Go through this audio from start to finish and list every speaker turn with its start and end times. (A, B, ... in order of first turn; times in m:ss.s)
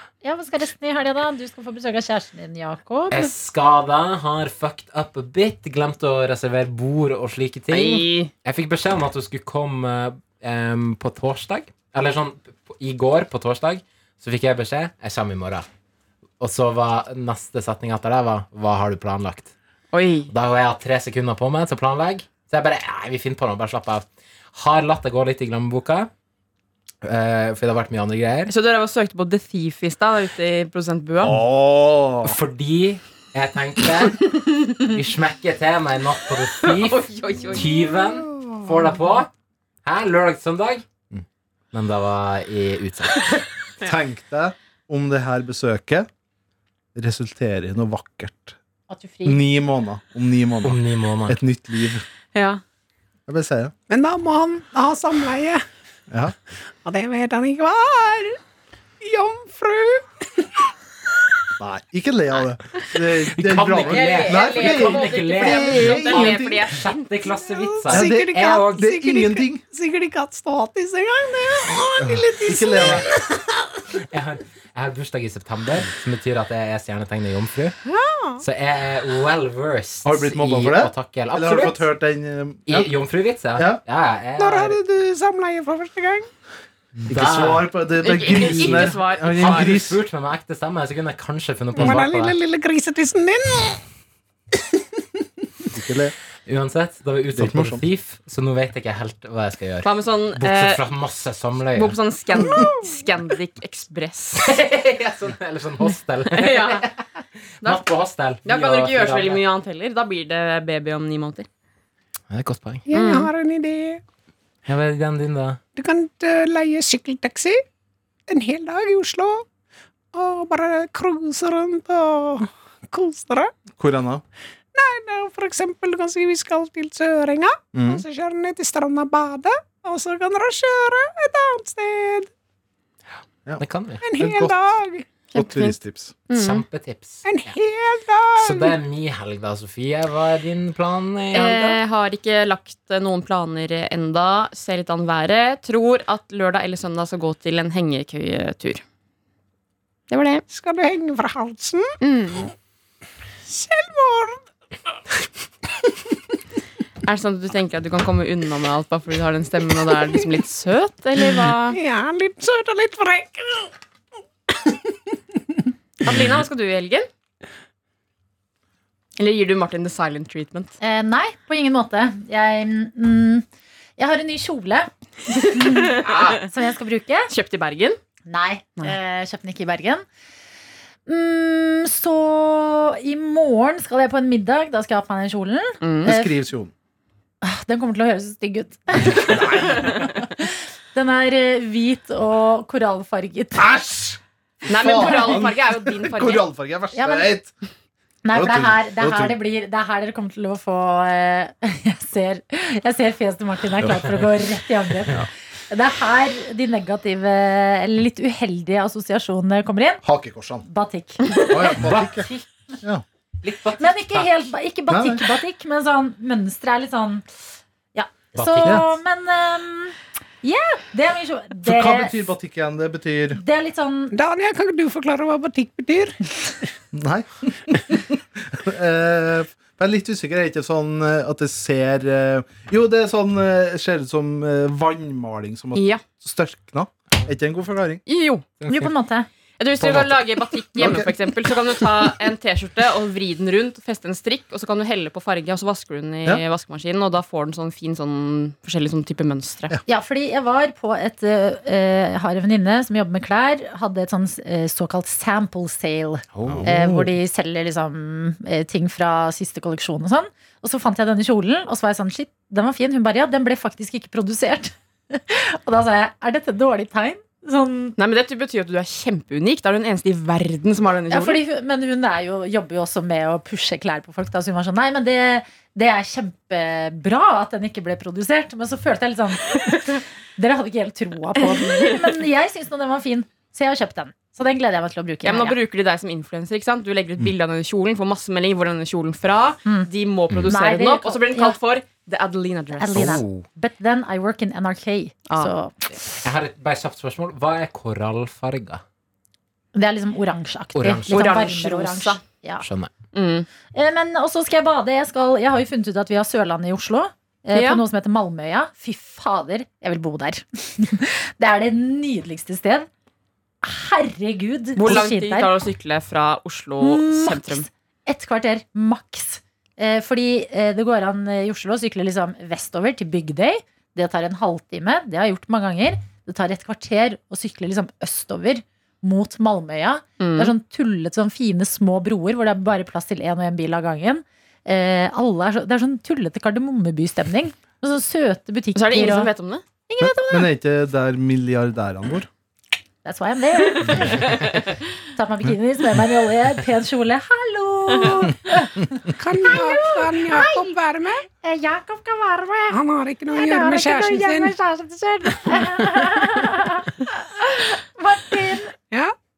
0:00.2-0:03.3 A
0:03.1-0:15.6 B
0:07.7-0:08.3 C
0:16.4-0:19.5 B
0:19.9-0:20.3 C
0:20.3-0:26.1 B
0:27.0-0:28.5 B
0:28.5-0:31.4 C
0:31.2-0:32.4 D
0:32.2-0:39.3 B
0:36.6-0:37.7 C
0:39.8-0:43.4 B
0:43.8-0:46.1 D
0:46.9-0:48.6 D
0:48.9-0:49.4 A
0:49.2-0:52.0 D
0:50.6-0:51.4 B
0:52.3-0:52.6 C
0:53.3-0:53.7 D
0:53.9-0:55.6 E
0:56.1-0:56.3 D
0:56.8-0:58.4 E
0:59.0-1:00.7 E
1:01.6-1:06.7 D
1:03.2-1:08.8 B
1:03.9-1:07.1 C
1:07.3-1:13.5 E
1:07.9-1:09.6 D
1:12.0-1:13.0 D
1:12.5-1:13.1 B
1:14.1-1:17.8 B
1:17.8-1:18.4 E
1:18.4-1:21.9 B
1:20.0-1:22.9 D
1:22.7-1:24.8 B
1:23.6-1:23.8 D
1:24.4-1:26.3 E
1:27.0-1:30.0 D
1:27.0-1:32.4 B
1:28.1-1:29.8 C
1:31.8-1:32.0 D
1:31.8-1:33.8 E
1:35.7-1:36.2 D
1:36.4-1:42.0 B
1:37.3-1:37.8 D
1:39.8-1:40.8 C
1:41.7-1:44.4 C
1:42.4-1:42.8 E
1:44.4-1:46.9 B
1:46.3-1:46.8 C
1:47.6-1:49.4 B
1:48.4-1:51.5 C
1:52.3-1:52.8 B
1:52.9-1:54.0 E
1:52.9-1:53.3 C
1:54.6-1:55.6 B
1:55.7-1:57.6 E
1:58.3-1:59.4 E
2:00.1-2:03.5 E
2:03.8-2:04.2 D
2:04.7-2:12.3 E
2:07.7-2:08.0 D
2:13.6-2:14.0 B
2:14.0-2:15.0 E
2:14.2-2:14.7 D
2:15.3-2:15.8 C
2:15.3-2:16.2 D
2:16.3-2:16.6 C
2:16.3-2:17.5 B
2:17.2-2:18.8 E
2:18.4-2:21.6 B
2:21.3-2:28.8 C
2:21.4-2:21.7 E
2:30.1-2:30.4 C
2:30.5-2:31.9 E
2:32.0-2:32.5 C
2:33.5-2:34.4 E
2:37.0-2:41.8 C
2:41.7-2:43.7 E
2:44.6-2:44.9 E
2:46.0-2:47.1 C
2:49.2-2:50.7 C
2:50.8-2:53.4 A
2:54.0-2:54.9 A
2:55.5-2:57.3 A
2:55.6-2:56.4 C
2:57.3-2:58.0 C
2:58.3-3:00.0 A
3:01.1-3:06.4 A
3:05.8-3:06.1 C
3:06.0-3:06.7 D
3:07.4-3:13.8 A
3:13.6-3:14.2 D
3:14.6-3:16.5 C
3:14.7-3:17.5 D
3:14.9-3:15.3 A
3:16.9-3:17.3 A
3:18.2-3:30.0 A
3:18.3-3:19.4 D
3:30.0-3:30.6 D
3:30.6-3:31.9 A
3:31.5-3:32.3 D
3:31.7-3:32.4 B
3:33.4-3:34.3 B
3:33.8-3:37.2 A
3:34.9-3:35.2 D
3:37.9-3:42.3 A
3:38.3-3:39.0 B
3:41.6-3:43.4 D
3:43.4-3:44.1 A
3:44.1-3:46.7 E
3:46.9-3:58.0 D
3:55.7-3:56.0 C
3:58.0-3:58.4 C
3:58.6-3:58.9 B
3:58.6-3:59.3 A
3:59.6-4:09.7 C
3:59.8-4:00.2 D
4:00.8-4:01.1 D
4:09.8-4:27.9 A
4:16.3-4:16.7 B
4:16.5-4:17.1 D
4:28.0-4:31.4 C
4:31.1-4:45.6 A
4:45.2-4:53.1 C
4:50.4-4:51.6 A
4:52.7-4:55.9 A
4:52.9-4:53.4 B
4:56.2-4:58.8 B
4:59.7-5:02.7 A
5:00.7-5:01.2 B
5:01.1-5:02.2 C
5:02.6-5:02.9 B
5:03.1-5:03.5 C
5:03.7-5:12.9 A
5:07.5-5:07.8 C
5:13.6-5:15.6 A
5:14.8-5:17.6 C
5:16.8-5:39.3 A
5:30.2-5:30.5 C
5:38.7-5:39.6 C
5:39.9-5:40.5 A
5:40.0-5:42.3 D
5:43.0-5:44.5 A
5:44.0-5:44.7 C
5:45.2-5:52.8 A
5:47.9-5:48.3 C
5:49.2-5:51.3 E
5:52.7-5:54.5 E
5:53.3-5:58.8 A